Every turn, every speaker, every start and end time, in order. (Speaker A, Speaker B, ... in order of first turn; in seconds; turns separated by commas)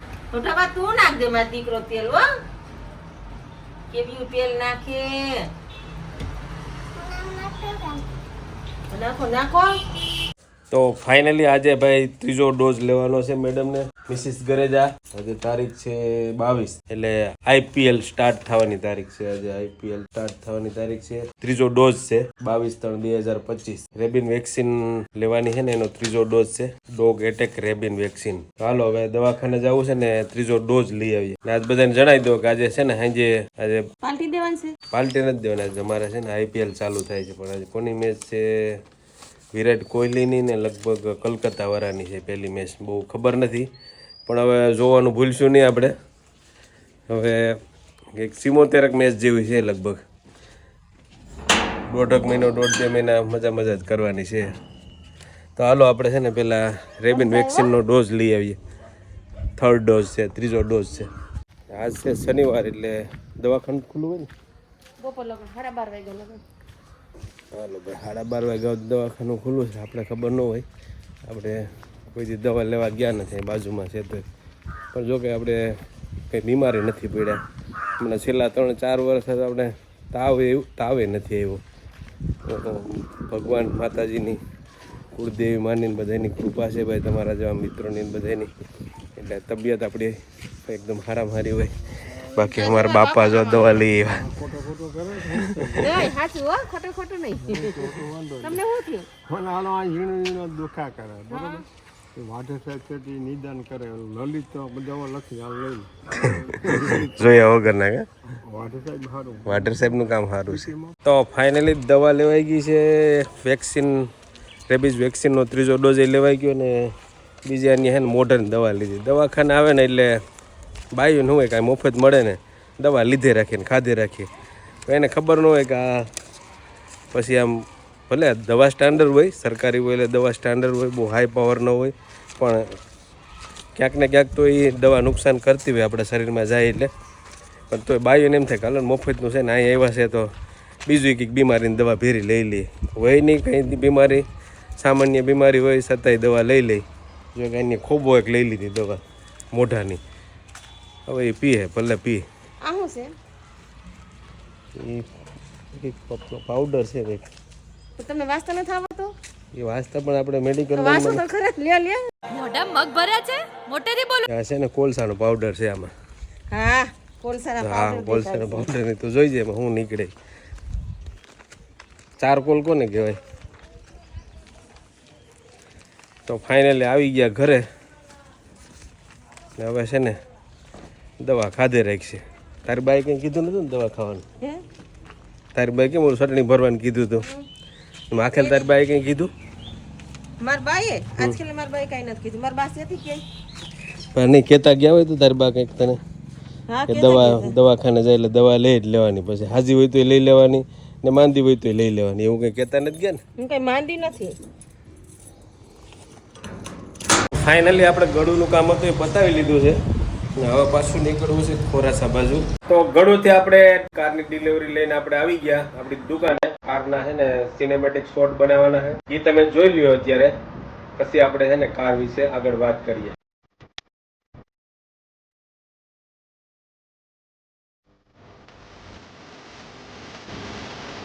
Speaker A: 0.3-2.2, Speaker A: 3.9-5.5, Speaker A: 7.0-8.0, Speaker A: 8.9-9.8, Speaker B: 10.7-33.9, Speaker A: 34.0-34.7, Speaker B: 34.9-38.8, Speaker B: 39.5-43.7, Speaker B: 44.3-45.9, Speaker B: 47.1-47.6, Speaker B: 48.1-50.0, Speaker B: 51.9-54.5, Speaker B: 55.5-58.6, Speaker A: 57.1-57.7, Speaker B: 59.6-61.1, Speaker B: 61.7-64.3, Speaker A: 65.0-66.4, Speaker B: 67.5-70.7, Speaker B: 71.2-74.2, Speaker B: 74.9-75.8, Speaker B: 76.3-77.4, Speaker B: 78.0-81.6, Speaker B: 82.5-84.4, Speaker B: 85.1-88.5, Speaker B: 89.2-94.4, Speaker A: 92.3-93.8, Speaker C: 94.2-95.9, Speaker B: 95.2-96.1, Speaker A: 95.8-99.2, Speaker C: 97.5-98.6, Speaker C: 99.2-101.6, Speaker A: 101.3-101.6, Speaker C: 102.1-107.2, Speaker B: 106.1-108.0, Speaker C: 108.4-109.7, Speaker B: 109.4-114.1, Speaker B: 114.7-120.2, Speaker B: 120.9-124.3, Speaker B: 124.8-126.1, Speaker B: 127.1-132.7, Speaker B: 133.7-136.9, Speaker B: 137.7-140.3, Speaker B: 140.8-144.2, Speaker B: 144.8-146.8, Speaker B: 147.3-149.0, Speaker B: 149.5-150.0, Speaker B: 151.1-152.2, Speaker A: 152.6-153.1, Speaker B: 154.8-155.1, Speaker B: 155.7-157.3, Speaker A: 158.0-159.1, Speaker B: 159.5-161.2, Speaker A: 160.7-162.0, Speaker D: 162.3-164.3, Speaker B: 164.3-165.9, Speaker A: 166.5-168.7, Speaker B: 167.6-170.1, Speaker B: 172.2-173.2, Speaker B: 176.3-177.7, Speaker B: 179.6-180.2, Speaker B: 181.2-184.2, Speaker B: 185.5-187.3, Speaker B: 188.1-189.3, Speaker A: 188.3-188.7, Speaker A: 190.4-193.2, Speaker B: 194.1-196.0, Speaker A: 196.7-197.6, Speaker B: 196.9-203.2, Speaker A: 203.4-204.4, Speaker B: 207.3-209.8, Speaker B: 210.3-220.4, Speaker B: 221.0-223.2